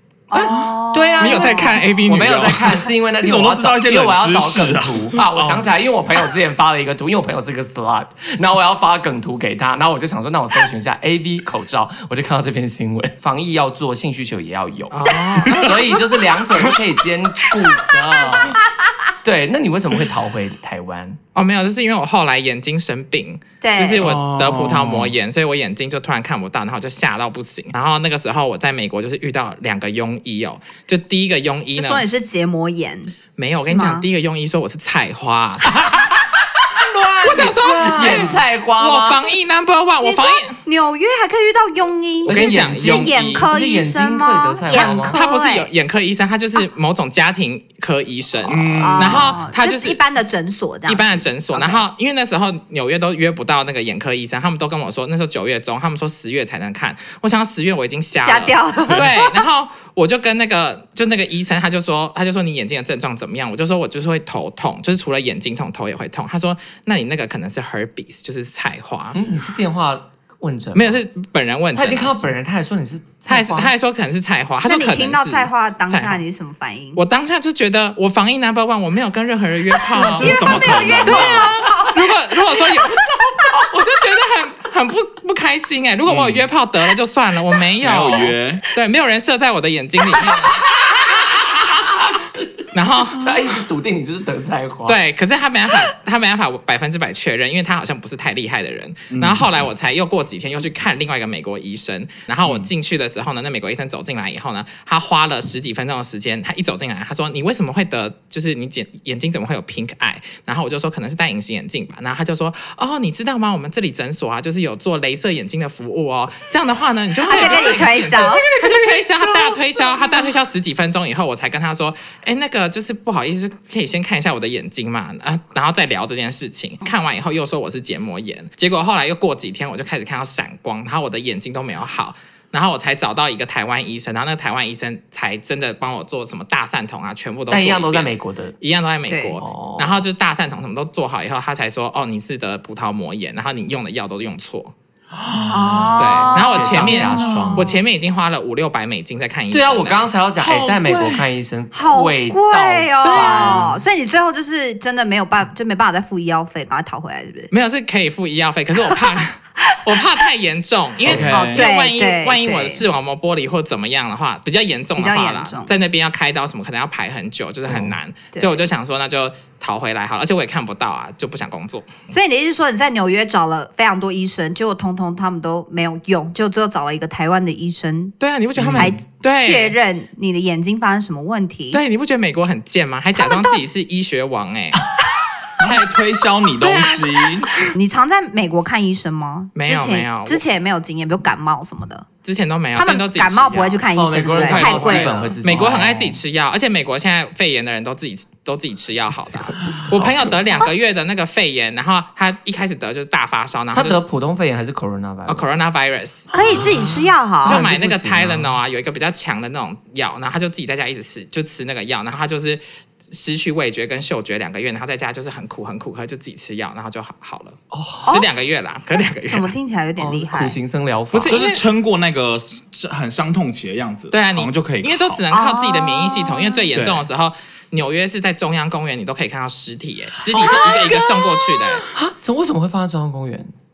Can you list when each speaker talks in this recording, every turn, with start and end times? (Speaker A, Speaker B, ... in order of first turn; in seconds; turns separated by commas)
Speaker A: 0.3-2.0, Speaker B: 0.3-18.6, Speaker C: 1.2-2.8, Speaker D: 2.1-5.7, Speaker C: 14.9-15.7, Speaker B: 19.2-21.2, Speaker C: 21.4-32.0, Speaker A: 23.6-24.1, Speaker D: 24.0-25.1, Speaker A: 31.7-34.0, Speaker C: 33.4-35.7, Speaker D: 36.7-38.4, Speaker C: 37.2-40.6, Speaker B: 37.9-39.2, Speaker A: 40.0-45.7, Speaker B: 42.2-45.2, Speaker C: 42.3-43.5, Speaker C: 44.7-50.0, Speaker D: 48.4-49.3, Speaker A: 48.8-51.8, Speaker C: 50.9-69.2, Speaker A: 58.1-59.4, Speaker B: 69.2-71.0, Speaker C: 70.7-72.3, Speaker B: 71.7-73.7, Speaker C: 73.3-76.2, Speaker A: 74.7-77.0, Speaker C: 77.0-83.1, Speaker D: 79.9-81.5, Speaker A: 80.0-82.0, Speaker B: 80.5-81.0, Speaker A: 82.8-83.2, Speaker C: 83.6-90.6, Speaker D: 86.1-86.5, Speaker D: 87.8-88.7, Speaker B: 91.0-95.0, Speaker C: 92.7-93.2, Speaker C: 94.9-144.7, Speaker D: 99.1-99.5, Speaker A: 117.3-118.4, Speaker D: 117.3-120.1, Speaker B: 137.5-138.6, Speaker A: 139.1-139.4, Speaker B: 139.4-140.0, Speaker D: 145.1-146.1, Speaker A: 145.5-147.0, Speaker C: 146.0-150.1, Speaker B: 146.1-147.7, Speaker D: 146.6-147.7, Speaker B: 149.5-153.7, Speaker D: 150.4-151.3, Speaker A: 151.7-157.5, Speaker C: 153.0-153.6, Speaker D: 153.4-153.8, Speaker C: 157.5-171.9, Speaker D: 161.0-161.7, Speaker A: 161.3-162.8, Speaker A: 164.9-165.7, Speaker A: 168.3-168.7, Speaker A: 172.1-178.2, Speaker C: 178.2-179.8, Speaker D: 178.6-179.0, Speaker A: 178.8-181.8, Speaker C: 181.7-184.9, Speaker A: 183.2-183.6, Speaker D: 185.6-187.5, Speaker C: 186.6-187.7, Speaker A: 187.7-192.1, Speaker C: 189.6-190.4, Speaker C: 192.2-204.0, Speaker A: 192.8-195.4, Speaker B: 193.9-196.2, Speaker B: 199.3-200.5, Speaker B: 203.7-205.6, Speaker C: 205.3-206.3, Speaker A: 206.3-207.6, Speaker D: 206.3-206.8, Speaker B: 206.4-208.6, Speaker C: 207.4-212.6, Speaker C: 213.1-219.5, Speaker B: 217.7-218.2, Speaker A: 219.3-220.6, Speaker B: 220.0-221.4, Speaker C: 221.1-221.6, Speaker D: 221.3-225.2, Speaker C: 224.1-231.9, Speaker A: 225.3-226.6, Speaker D: 226.8-227.1, Speaker B: 230.4-233.5, Speaker A: 230.4-230.9